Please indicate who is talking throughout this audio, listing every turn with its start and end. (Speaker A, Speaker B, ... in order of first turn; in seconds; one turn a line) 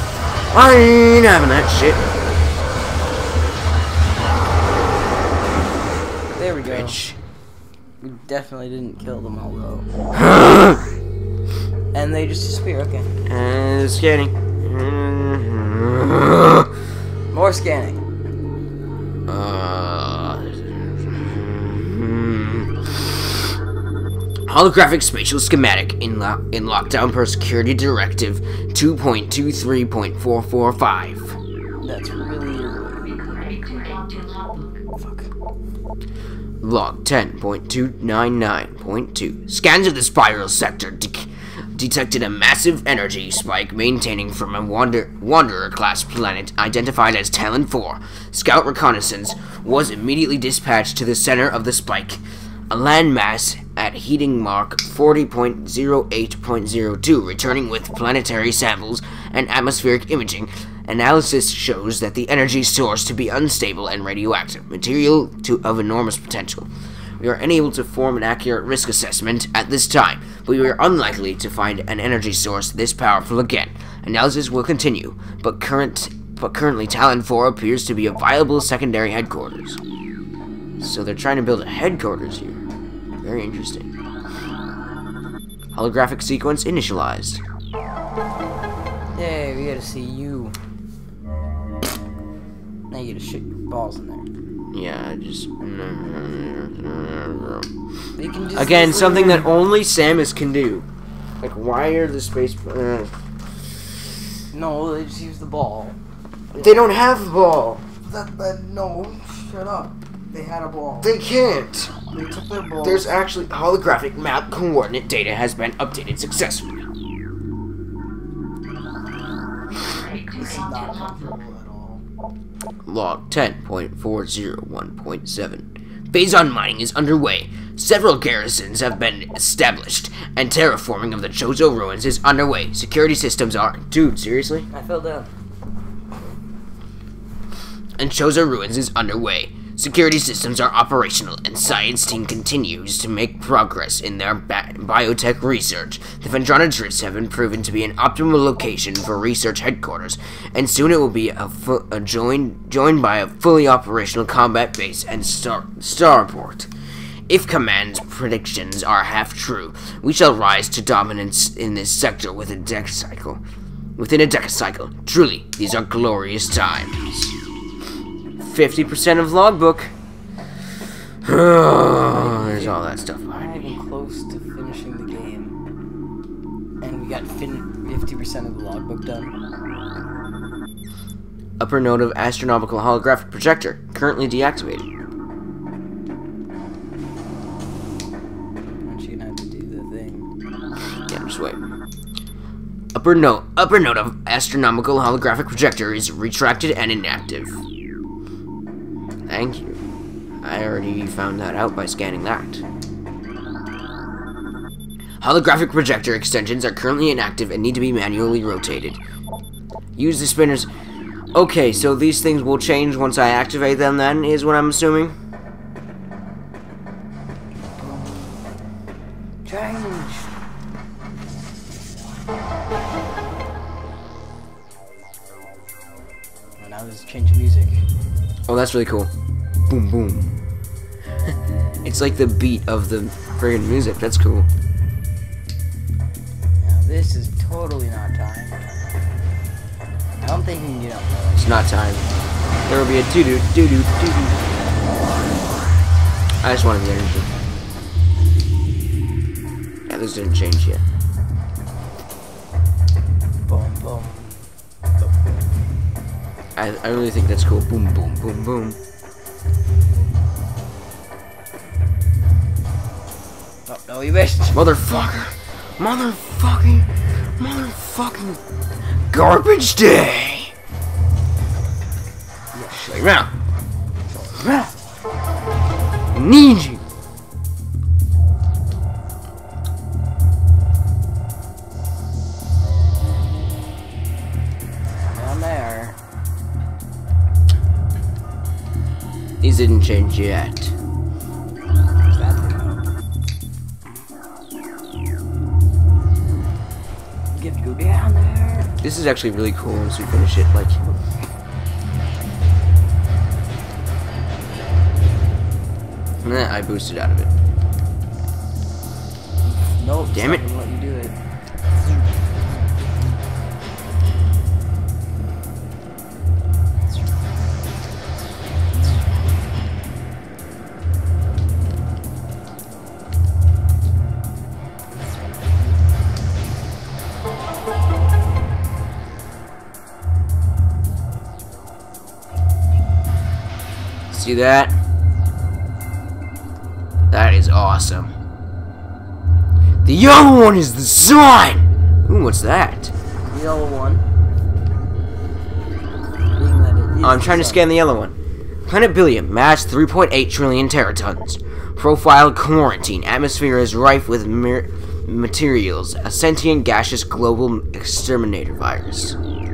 Speaker A: 0.5-2.0
Speaker B: 6.3-7.0
Speaker A: 6.6-7.2
Speaker B: 8.0-9.9
Speaker A: 10.2-10.8
Speaker B: 11.9-13.1
Speaker A: 13.3-16.7
Speaker B: 17.3-18.1
Speaker A: 19.3-23.2
Speaker A: 24.5-31.4
Speaker B: 31.8-34.2
Speaker B: 34.9-35.3
Speaker A: 36.6-66.7
Speaker A: 67.2-79.8
Speaker A: 80.8-82.6
Speaker A: 83.2-83.9
Speaker A: 85.7-87.4
Speaker B: 89.1-90.6
Speaker B: 92.9-94.3
Speaker A: 94.7-97.7
Speaker B: 98.2-99.5
Speaker A: 98.6-100.9
Speaker A: 101.4-103.1
Speaker B: 104.5-106.0
Speaker A: 106.5-107.8
Speaker B: 108.0-111.1
Speaker A: 111.0-112.1
Speaker B: 112.1-113.1
Speaker A: 112.8-116.8
Speaker B: 120.3-122.0
Speaker A: 122.9-134.7
Speaker B: 134.7-135.3
Speaker A: 138.0-156.7
Speaker A: 157.3-163.4
Speaker A: 164.0-167.3
Speaker A: 168.4-169.9
Speaker A: 171.2-173.7
Speaker B: 172.0-172.8
Speaker B: 173.3-175.6
Speaker B: 176.8-179.3
Speaker A: 181.6-184.9
Speaker B: 188.8-190.3
Speaker A: 191.1-191.6
Speaker A: 192.9-197.6
Speaker A: 199.3-199.8
Speaker A: 200.4-202.6
Speaker A: 205.2-209.0
Speaker A: 210.0-210.7
Speaker A: 211.3-215.2
Speaker B: 217.8-218.4
Speaker B: 219.4-220.3
Speaker B: 226.6-227.9
Speaker A: 228.5-229.1
Speaker A: 229.7-230.4
Speaker A: 231.8-234.5
Speaker B: 236.6-239.0
Speaker B: 240.2-241.6
Speaker A: 241.4-242.1
Speaker A: 242.7-244.4
Speaker A: 246.4-247.3
Speaker A: 249.9-250.8
Speaker B: 253.4-254.5
Speaker A: 256.6-258.8
Speaker B: 263.7-264.6
Speaker A: 264.5-268.4
Speaker A: 269.1-270.5
Speaker B: 272.5-272.9
Speaker A: 272.7-273.3
Speaker B: 274.1-274.4
Speaker A: 274.4-274.7
Speaker A: 276.1-276.8
Speaker B: 284.9-286.0
Speaker A: 289.4-290.8
Speaker B: 292.1-292.9
Speaker B: 297.3-298.7
Speaker A: 298.8-300.8
Speaker A: 306.2-307.3
Speaker B: 309.4-311.2
Speaker A: 310.1-310.5
Speaker A: 334.1-334.8
Speaker A: 337.1-338.1
Speaker A: 339.9-342.9
Speaker B: 343.2-344.0
Speaker B: 346.3-347.7
Speaker A: 347.0-348.1
Speaker A: 348.7-359.2